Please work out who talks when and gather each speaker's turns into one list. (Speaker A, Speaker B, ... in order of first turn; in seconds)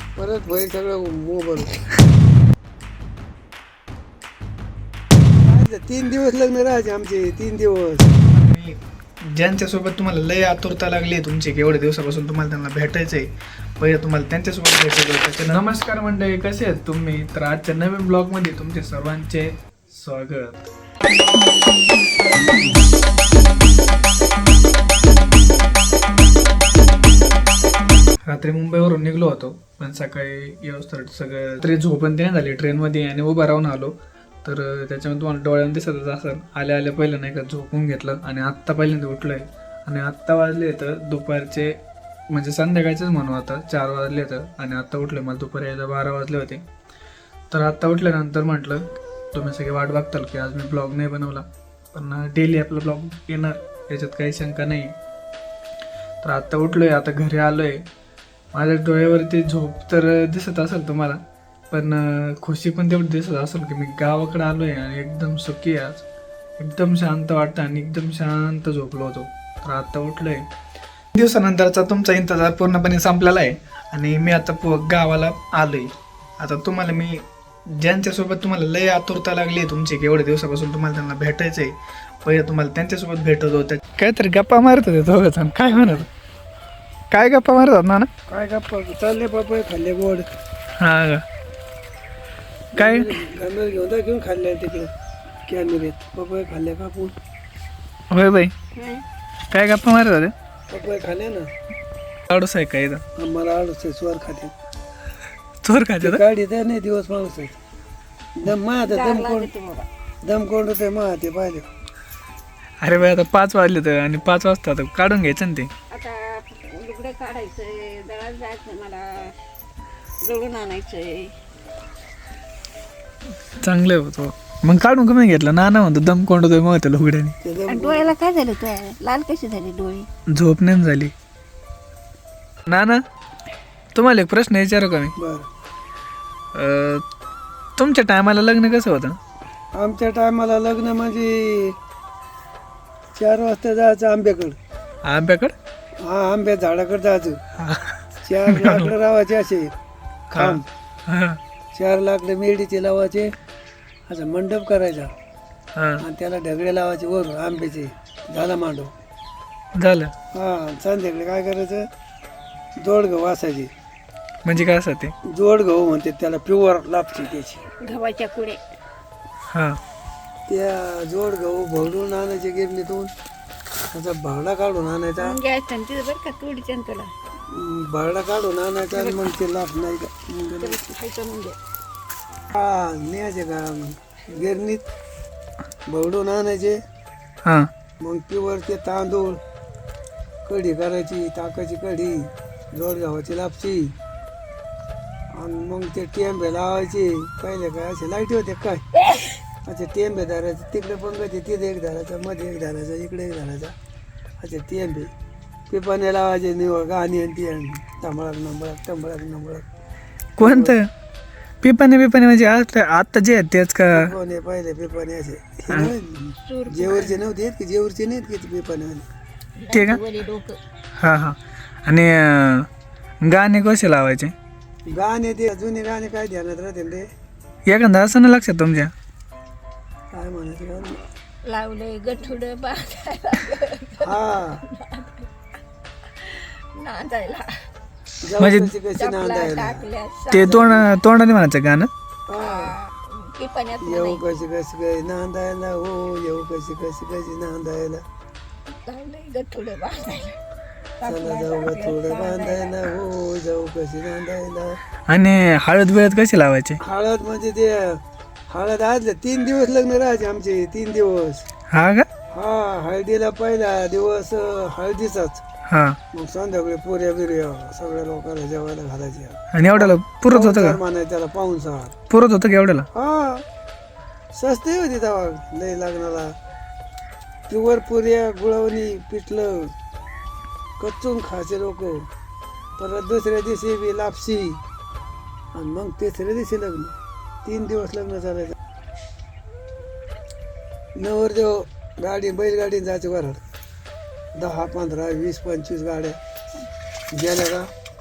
Speaker A: 0.2-1.7, 5.4-8.1, 85.7-86.0, 88.3-90.3, 92.7-94.9, 95.5-97.1, 100.7-101.5, 103.2-104.5, 106.0-107.5, 108.4-109.5, 110.2-111.7, 127.4-128.1, 135.2-135.5, 139.7-141.8, 143.1-144.6, 146.0-147.4, 148.2-149.7, 150.3-150.6, 151.7-153.3, 154.1-155.1, 156.0-158.9, 160.3-161.9, 162.8-163.7, 165.3-167.6, 170.5-173.1, 173.9-175.4, 177.5-180.8, 182.5-184.8, 185.9-186.8, 188.0-189.4, 190.4-193.9, 195.3-198.8, 199.6-203.7, 204.4-205.1, 205.7-209.6, 210.4-210.7, 213.9-219.1, 224.9-227.0, 230.1-231.0, 234.0-234.6, 238.2-239.8, 242.3-242.8, 243.8-248.0, 251.0-254.8, 256.8-258.0, 258.5-261.4, 262.3-265.4, 266.1-271.9, 272.9-273.4, 274.3-276.3, 277.5-279.7, 280.8-282.1, 282.8-284.6, 285.5-288.6, 290.9-293.4, 294.4-296.2, 297.1-297.7
Speaker B: 8.3-8.8, 9.3-20.7, 28.2-41.8, 42.3-46.6, 47.5-54.9, 56.2-57.8, 58.5-61.2, 61.7-66.0, 66.6-70.4, 71.1-86.1, 87.1-88.1, 90.8-91.2, 92.7-93.1, 98.1-98.5, 99.5-100.3, 102.3-103.0, 105.6-106.2, 112.8-115.7, 123.6-127.3, 130.3-131.1, 132.7-133.0, 133.9-135.1, 136.5-137.0, 137.8-139.2, 145.0-145.5, 147.6-148.9, 150.3-151.4, 155.8-156.0, 159.7-160.1, 164.4-165.1, 169.5-169.8, 210.4-210.9, 211.6-214.1, 219.7-220.0, 221.0-222.7, 223.2-224.3, 227.7-228.9, 238.4-238.7, 240.3-241.9, 255.1-256.8, 261.7-262.1, 265.7-266.0, 269.5-270.8, 272.1-272.9
Speaker C: 98.7-99.0, 108.9-109.9, 115.9-119.3, 120.2-121.3, 127.7-130.1, 167.8-168.6, 175.2-177.1, 178.9-179.2, 180.6-181.6, 216.4-217.2, 219.6-220.6, 231.5-235.3, 236.2-237.5, 239.0-240.8, 242.4-244.2, 248.7-250.4, 251.0-252.8